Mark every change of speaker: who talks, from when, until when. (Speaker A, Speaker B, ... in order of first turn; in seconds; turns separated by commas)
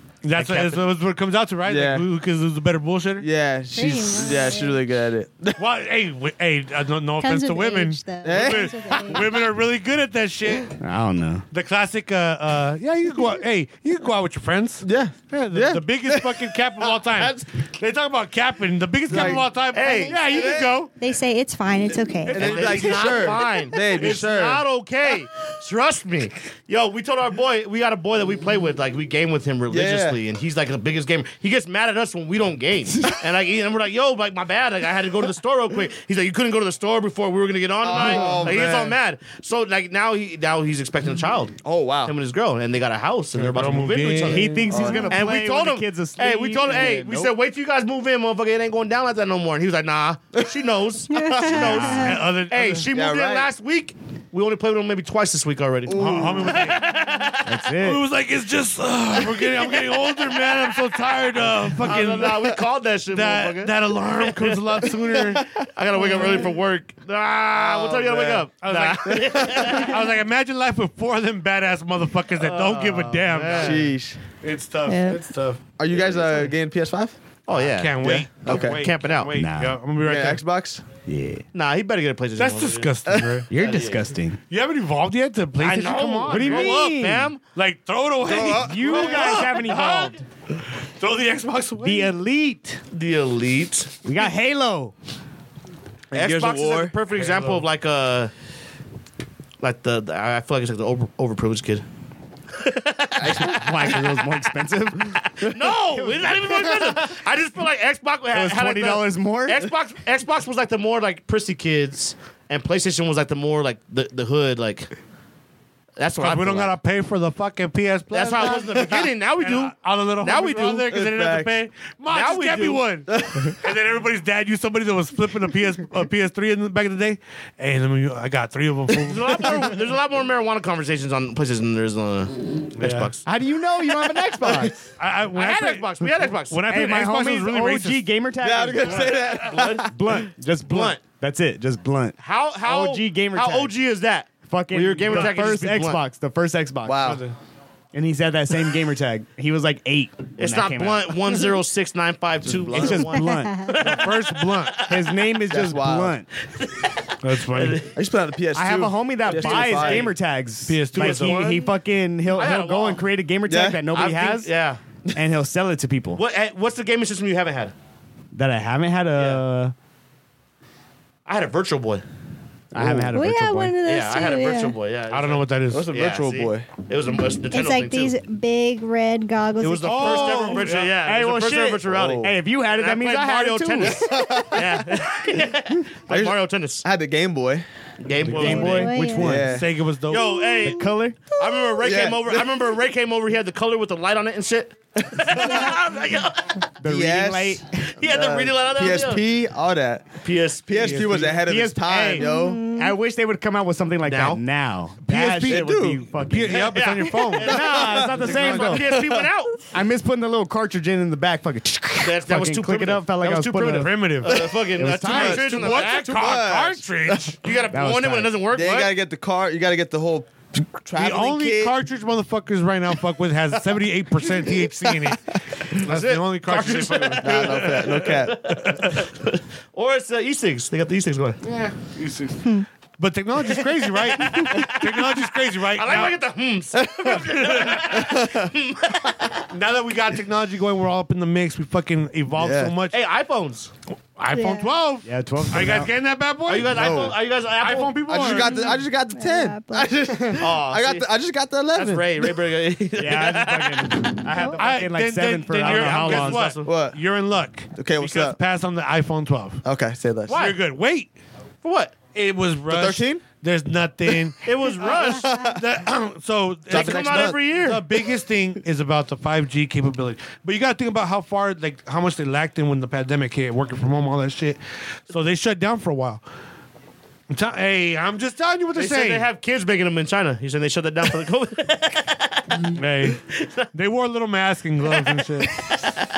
Speaker A: 0.2-3.3, Speaker B: 0.4-0.8, Speaker C: 1.6-2.0, Speaker C: 3.2-5.6, Speaker D: 3.7-4.8, Speaker A: 5.6-10.8, Speaker D: 7.2-9.4, Speaker C: 8.2-8.7, Speaker E: 10.8-11.5, Speaker A: 11.5-20.9, Speaker C: 14.8-16.5, Speaker B: 17.2-17.5, Speaker C: 19.1-19.5, Speaker B: 19.2-20.2, Speaker C: 20.3-20.9, Speaker D: 21.0-22.4, Speaker A: 22.3-23.3, Speaker C: 22.3-24.6, Speaker B: 22.4-57.5, Speaker C: 29.7-30.2, Speaker C: 37.8-39.0, Speaker A: 38.0-38.7, Speaker C: 41.6-42.1, Speaker A: 43.4-44.8, Speaker E: 44.3-47.3, Speaker C: 44.7-45.1, Speaker D: 44.7-45.2, Speaker D: 51.1-52.1, Speaker A: 51.7-52.9, Speaker C: 52.9-53.5, Speaker C: 55.9-56.7, Speaker A: 55.9-62.6, Speaker E: 57.5-58.1, Speaker B: 61.8-64.9, Speaker A: 63.1-65.7, Speaker B: 65.7-70.2, Speaker A: 67.5-73.8, Speaker C: 69.1-69.8, Speaker B: 72.4-73.9, Speaker C: 73.6-74.2, Speaker A: 74.4-75.7, Speaker D: 74.9-75.2, Speaker C: 75.8-77.2, Speaker B: 77.5-79.3, Speaker A: 77.5-80.4, Speaker C: 78.0-78.8, Speaker E: 79.4-79.8, Speaker C: 80.0-80.8, Speaker E: 81.1-81.5, Speaker B: 81.5-82.9, Speaker A: 82.4-83.5, Speaker C: 83.1-83.8, Speaker E: 83.5-84.4, Speaker B: 83.7-84.0, Speaker A: 84.5-86.9, Speaker B: 85.6-87.4, Speaker E: 86.3-87.3, Speaker A: 87.5-90.1, Speaker C: 88.2-89.4, Speaker E: 88.5-90.2, Speaker B: 88.9-90.2, Speaker A: 91.0-92.1, Speaker E: 91.8-92.8, Speaker B: 92.9-93.9, Speaker E: 94.0-94.9, Speaker C: 96.1-97.0, Speaker B: 96.1-98.3, Speaker A: 97.1-97.7, Speaker B: 99.6-101.8, Speaker B: 102.5-104.4, Speaker E: 103.2-107.2, Speaker B: 105.2-114.9, Speaker E: 108.3-109.6, Speaker B: 116.0-116.7, Speaker A: 116.2-129.6, Speaker B: 118.1-120.9, Speaker C: 120.9-121.5, Speaker B: 122.1-122.8, Speaker C: 123.1-123.5, Speaker B: 128.9-133.2, Speaker A: 132.8-133.1, Speaker E: 133.2-134.9, Speaker A: 134.8-138.1, Speaker B: 135.3-136.7, Speaker E: 136.7-143.7, Speaker C: 138.4-140.3, Speaker B: 139.2-139.9, Speaker B: 140.7-141.0, Speaker B: 142.2-146.0, Speaker E: 144.4-147.2, Speaker A: 145.1-145.5, Speaker C: 146.8-147.2, Speaker A: 147.0-147.3, Speaker E: 147.9-151.5, Speaker B: 150.4-155.1, Speaker C: 152.4-153.2, Speaker E: 152.7-153.9, Speaker D: 153.3-153.7, Speaker A: 153.7-154.9, Speaker E: 154.9-156.3, Speaker C: 155.5-156.2, Speaker B: 156.5-157.9, Speaker A: 157.2-157.9, Speaker C: 157.9-160.1, Speaker E: 158.6-164.5, Speaker B: 159.2-160.1, Speaker A: 160.7-161.6, Speaker B: 161.0-163.1, Speaker C: 163.5-163.8, Speaker B: 163.9-164.8, Speaker E: 165.1-166.2, Speaker B: 166.1-167.7, Speaker E: 168.3-169.7, Speaker B: 169.1-169.4, Speaker B: 171.3-172.0, Speaker E: 172.7-173.8, Speaker C: 172.8-173.1, Speaker D: 173.1-174.7, Speaker B: 173.8-178.1, Speaker A: 175.1-175.9, Speaker C: 175.7-176.7, Speaker D: 177.5-180.4, Speaker B: 179.6-186.8, Speaker A: 179.8-181.0, Speaker E: 180.9-184.2, Speaker C: 181.9-182.3, Speaker C: 183.8-184.9, Speaker D: 184.2-184.5, Speaker C: 186.1-187.7, Speaker B: 188.0-188.9, Speaker A: 188.2-190.4, Speaker E: 188.3-189.4, Speaker D: 188.7-189.3, Speaker C: 189.1-189.7, Speaker B: 190.1-190.8, Speaker D: 190.4-190.8, Speaker E: 190.6-191.2, Speaker B: 191.3-196.7, Speaker D: 191.5-191.7, Speaker C: 191.8-192.6, Speaker E: 196.8-197.7, Speaker C: 196.8-200.2, Speaker B: 198.0-199.2, Speaker B: 200.2-201.3, Speaker C: 200.7-202.7, Speaker A: 200.8-201.3, Speaker E: 201.3-209.1, Speaker D: 202.2-203.0, Speaker B: 204.0-204.4, Speaker A: 205.0-207.7, Speaker C: 205.5-206.1, Speaker B: 206.5-209.7, Speaker C: 207.5-209.3, Speaker A: 208.2-208.7, Speaker E: 209.7-213.9, Speaker B: 212.0-216.5, Speaker A: 213.7-214.4, Speaker C: 214.3-217.2, Speaker E: 214.8-215.7, Speaker A: 215.1-217.4, Speaker B: 217.4-218.9, Speaker E: 217.7-218.3, Speaker C: 218.5-221.8, Speaker A: 220.9-229.0, Speaker C: 224.4-225.0, Speaker B: 225.8-231.4, Speaker C: 227.2-228.4, Speaker A: 231.4-236.2, Speaker B: 233.6-239.5, Speaker C: 236.8-237.2, Speaker A: 237.3-238.0, Speaker C: 238.0-238.5, Speaker A: 239.5-243.0, Speaker C: 242.4-242.8, Speaker B: 242.9-243.7, Speaker A: 244.2-248.6, Speaker D: 244.3-244.8, Speaker E: 245.1-245.9, Speaker B: 246.5-248.3, Speaker C: 246.7-247.2, Speaker C: 248.1-252.3, Speaker D: 248.3-249.9, Speaker B: 250.4-251.1, Speaker B: 251.7-254.1, Speaker E: 253.0-256.5, Speaker A: 254.6-259.6, Speaker B: 255.5-256.7, Speaker C: 256.6-257.0, Speaker C: 257.8-258.4, Speaker C: 259.6-260.4, Speaker B: 260.3-260.6, Speaker A: 260.3-261.1, Speaker B: 261.6-262.0, Speaker A: 262.1-274.6, Speaker C: 262.7-263.2, Speaker B: 264.4-265.4, Speaker C: 265.1-265.6, Speaker B: 266.7-267.8, Speaker C: 266.7-267.4, Speaker A: 275.1-276.2, Speaker A: 277.3-279.3, Speaker B: 278.8-283.7, Speaker A: 282.7-283.2, Speaker A: 283.7-285.6, Speaker B: 285.0-285.8